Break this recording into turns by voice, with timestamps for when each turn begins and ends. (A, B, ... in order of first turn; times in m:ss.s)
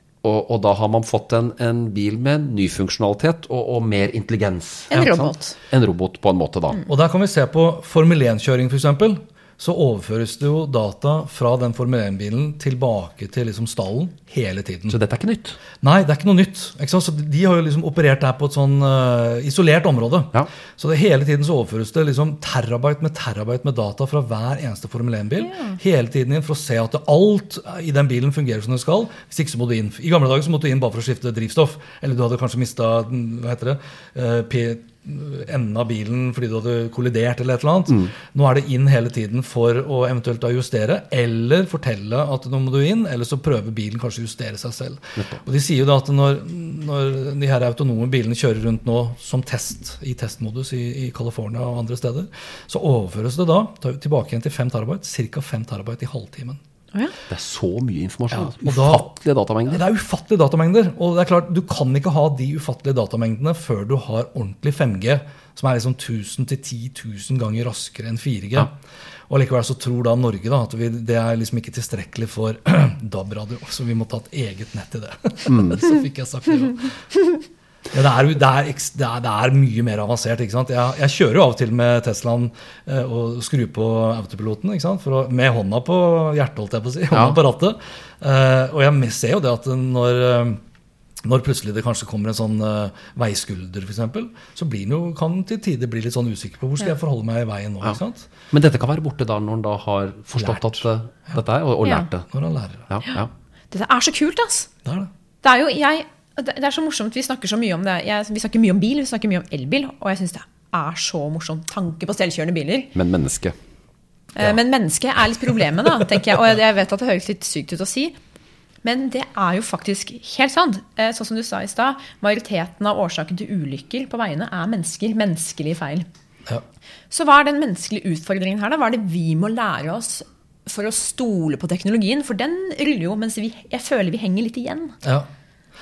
0:00.2-0:06.9 A
0:04.9-0:05.6 B
0:06.9-0:15.0 C
0:14.9-0:15.6 A
0:15.8-0:56.6 C
0:25.4-0:25.8 B
0:57.3-0:59.8 A
0:58.3-0:59.1 C
0:59.7-1:08.7 C
1:09.3-1:17.0 C
1:15.5-1:15.8 A
1:17.9-1:30.6 C
1:27.1-1:27.4 A
1:31.2-1:38.3 C
1:38.5-1:42.3 A
1:40.4-1:40.8 C
1:42.3-1:42.9 C
1:42.9-1:43.3 A
1:43.7-1:44.7 B
1:44.8-1:45.1 C
1:45.4-1:52.9 B
1:53.0-1:53.6 A
1:54.4-1:58.2 B
1:58.8-2:06.1 B
2:07.1-2:15.0 B